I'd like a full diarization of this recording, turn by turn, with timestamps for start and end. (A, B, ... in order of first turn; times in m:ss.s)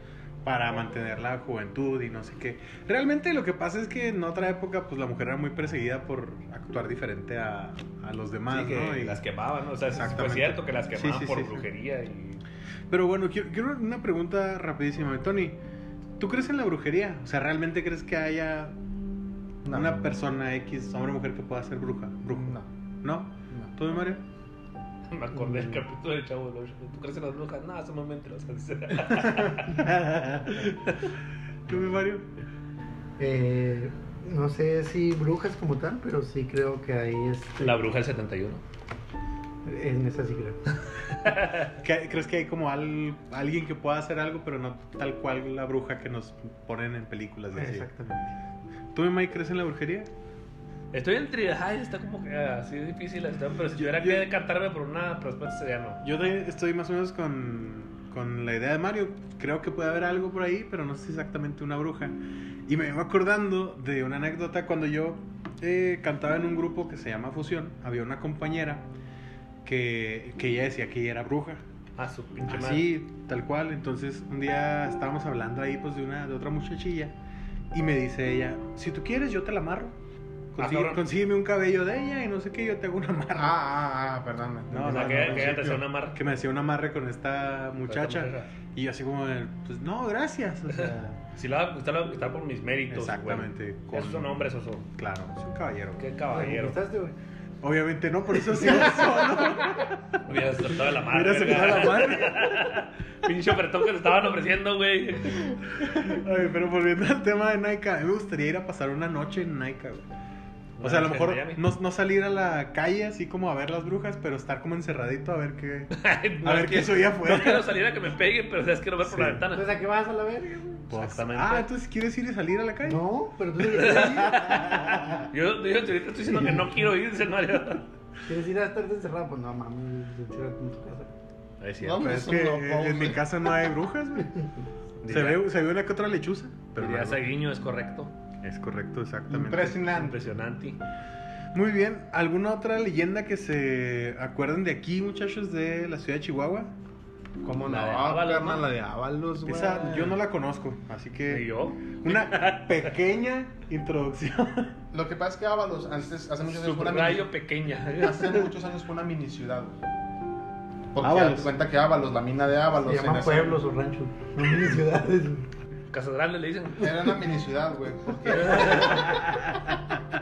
0:00.4-0:09.2 A
0:08.5-0:12.4 B
0:09.9-0:11.7 A
0:12.9-0:15.6 A
0:16.2-0:18.8 A
0:19.6-0:20.0 C
0:19.7-0:24.2 A
0:22.3-0:22.7 C
0:25.1-0:29.8 B
0:29.2-0:30.9 A
0:30.5-0:31.0 B
0:31.7-0:32.3 A
0:33.2-0:37.9 D
0:37.6-0:38.6 B
0:39.6-0:40.6 D
0:41.2-0:41.7 B
0:41.8-0:47.9 A
0:47.6-0:48.3 D
0:48.9-0:50.1 A
0:50.9-0:56.0 B
0:53.7-0:54.3 A
0:56.0-1:08.9 A
1:09.6-1:11.6 A
1:12.0-1:12.9 B
1:12.5-1:17.2 A
1:17.7-1:20.0 A
1:20.5-1:23.6 A
1:20.6-1:21.0 B
1:23.4-1:25.6 C
1:24.7-1:31.2 A
1:24.8-1:26.2 B
1:27.9-1:28.5 B
1:30.7-1:34.9 B
1:32.9-1:36.1 A
1:36.0-1:36.8 B
1:36.3-1:37.2 D
1:37.6-1:42.7 A
1:40.2-1:45.5 B
1:45.8-1:50.1 A
1:50.8-1:51.6 B
1:50.8-1:57.7 A
1:55.9-1:59.7 B
1:59.0-1:59.4 A
1:59.5-2:00.9 D
2:00.9-2:03.1 A
2:00.9-2:01.7 B
2:02.8-2:05.1 D
2:03.7-2:07.8 B
2:03.8-2:05.2 A
2:08.3-2:11.1 D
2:11.6-2:12.0 B
2:11.8-2:13.2 C
2:12.0-2:14.5 A
2:15.0-2:15.4 B
2:15.1-2:17.4 A
2:16.8-2:18.1 B
2:18.4-2:19.8 A
2:19.3-2:20.2 C
2:19.8-2:20.8 B
2:21.5-2:26.7 A
2:27.4-2:30.2 C
2:27.6-2:28.7 B
2:29.5-2:34.8 A
2:31.3-2:32.9 B
2:34.9-2:37.3 C
2:36.5-2:38.5 B
2:37.9-2:39.8 C
2:40.9-2:43.6 C
2:41.0-2:41.5 A
2:42.8-2:45.5 D
2:45.9-2:47.0 B
2:46.8-2:49.2 C
2:48.3-2:49.2 B
2:48.9-2:49.8 A